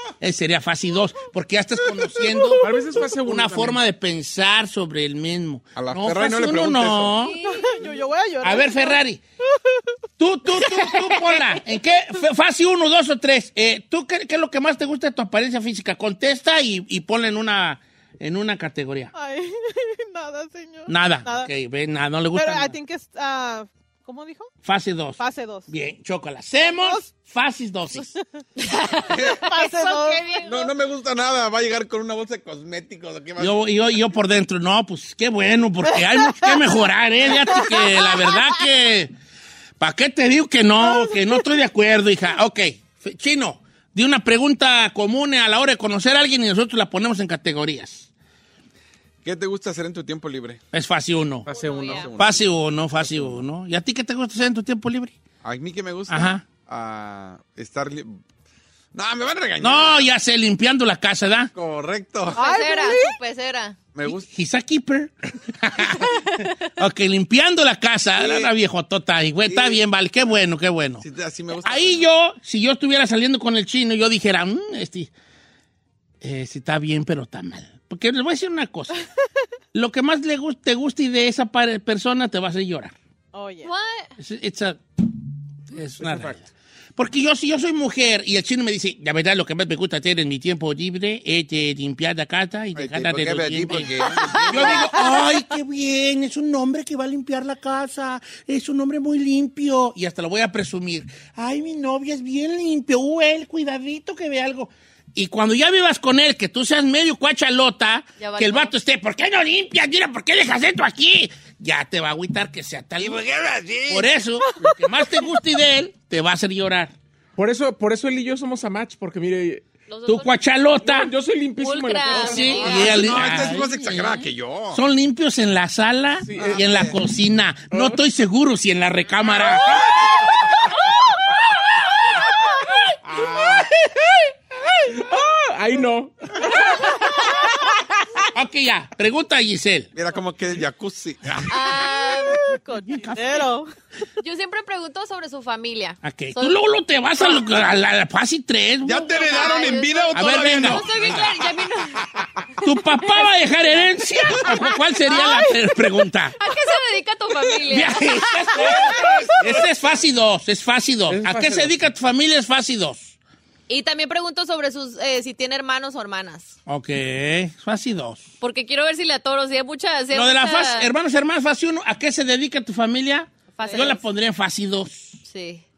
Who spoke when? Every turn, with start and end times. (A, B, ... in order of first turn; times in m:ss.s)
0:00.2-0:02.6 A
0:02.6-0:03.8 B
0:03.2-0:07.5 A
0:05.8-0:07.2 C
0:07.2-0:07.7 D
0:07.4-0:09.0 E
0:08.4-0:09.2 A
0:10.2-0:19.1 A
0:10.5-0:11.6 E
0:19.1-0:21.5 E
0:20.9-0:22.8 A
0:22.3-0:24.5 E
0:24.6-0:28.1 A
0:25.2-0:25.7 E
0:26.6-0:27.1 E
0:28.6-0:30.7 D
0:29.1-0:29.4 C
0:29.4-0:30.5 E
0:30.4-0:33.6 C
0:33.4-0:39.1 A
0:35.9-0:36.8 E
0:37.4-0:38.4 E
0:39.8-0:48.1 A
0:40.8-0:41.2 E
0:49.2-0:50.6 C
0:50.7-0:51.5 A
0:51.5-0:53.4 C
0:51.5-0:52.1 D
0:52.2-0:55.1 A
0:55.4-0:58.2 C
0:56.1-0:56.4 A
0:58.9-1:00.2 C
0:59.6-1:01.5 A
1:01.5-1:02.4 C
1:02.3-1:03.8 D
1:02.3-1:03.2 E
1:03.9-1:04.3 C
1:04.0-1:06.1 A
1:06.6-1:11.0 A
1:08.2-1:08.5 C
1:09.5-1:09.8 C
1:11.0-1:12.1 C
1:11.6-1:15.1 A
1:16.2-1:19.0 A
1:19.7-1:22.9 A
1:23.3-1:23.7 E
1:23.6-1:24.1 D
1:24.2-1:25.0 A
1:25.7-1:53.2 A
1:26.0-1:26.4 B
1:32.8-1:35.0 C
1:34.5-1:34.9 D
1:48.2-1:48.7 D
1:53.0-1:54.1 C
1:53.9-1:56.9 A
1:57.4-1:59.6 B
1:59.9-2:00.3 D
2:00.1-2:01.1 A
2:00.8-2:02.9 B
2:01.6-2:03.5 D
2:02.1-2:10.3 A
2:02.6-2:04.8 C
2:06.2-2:06.6 B
2:06.4-2:06.9 C
2:07.7-2:08.0 B
2:13.1-2:13.6 C
2:13.4-2:13.6 A
2:14.8-2:16.5 B
2:18.3-2:19.9 A
2:19.9-2:21.8 C
2:21.5-2:22.4 D
2:22.2-2:23.7 E
2:22.7-2:23.6 A
2:24.2-2:26.6 D
2:26.0-2:29.3 A
2:27.2-2:27.5 D
2:28.8-2:31.5 C
2:29.1-2:32.1 D
2:30.1-2:31.3 A
2:32.6-2:36.4 A
2:35.1-2:35.5 D
2:36.4-2:38.8 D
2:37.7-2:43.2 A
2:38.5-2:39.8 C
2:41.1-2:41.7 B
2:41.1-2:41.6 C
2:43.7-2:46.6 D
2:46.7-2:48.3 A
2:48.4-2:50.9 D
2:50.1-2:55.2 A
2:53.6-2:54.0 D
2:53.6-2:54.0 E
2:55.2-2:55.6 D